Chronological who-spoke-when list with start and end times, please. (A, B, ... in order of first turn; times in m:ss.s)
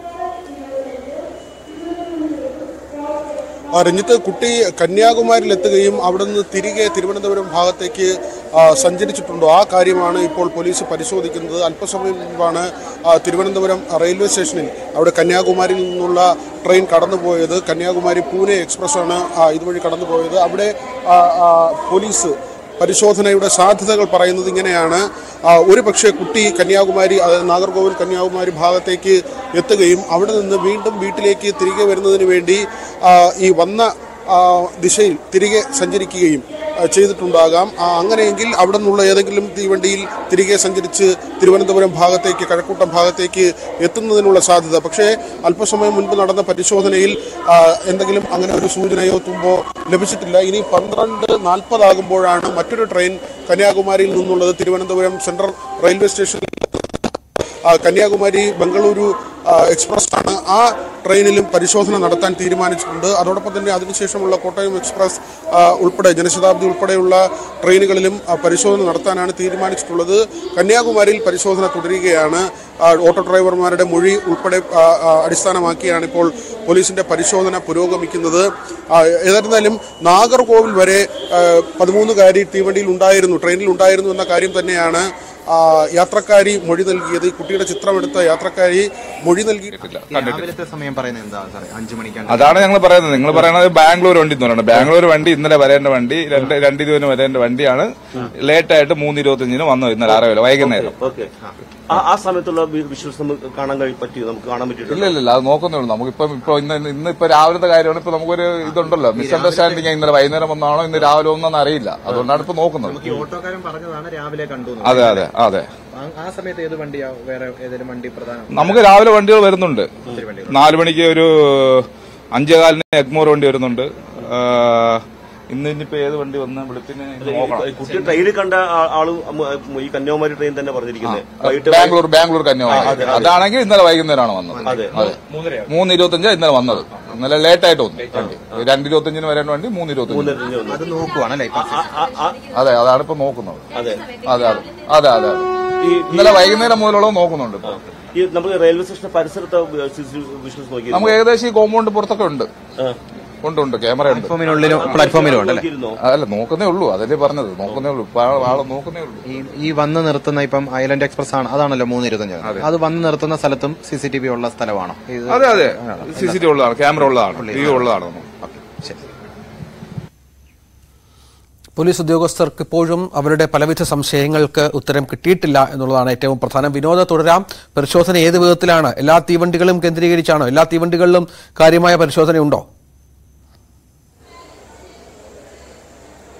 0:03.8-0:57.1 A
0:57.6-1:29.8 A
1:29.8-1:30.5 B
1:30.1-1:32.7 C
1:32.3-1:40.9 B
1:40.1-1:41.3 D
1:41.9-1:45.2 D
1:44.9-1:53.0 B
1:48.7-1:49.9 C
1:52.8-1:55.3 C
1:54.8-1:55.7 B
1:55.9-1:58.9 C
1:58.5-2:07.8 B
2:00.1-2:00.6 C
2:07.2-2:12.0 D
2:11.0-2:20.4 B
2:12.6-2:13.4 D
2:14.5-2:15.2 C
2:14.6-2:15.0 D
2:18.1-2:18.6 D
2:20.1-2:20.8 D
2:20.6-2:21.8 C
2:21.5-2:22.4 D
2:22.5-2:25.6 B
2:23.7-2:24.2 D
2:25.8-2:26.5 D
2:26.1-2:27.8 B
2:27.7-2:31.2 D
2:30.9-2:32.5 B
2:33.4-2:34.4 B
2:34.1-2:35.7 C
2:34.4-2:36.0 D
2:36.0-2:39.2 B
2:39.3-2:46.4 C
2:42.4-2:42.7 B
2:45.3-2:48.2 B
2:47.3-2:49.0 C
2:51.8-3:02.6 E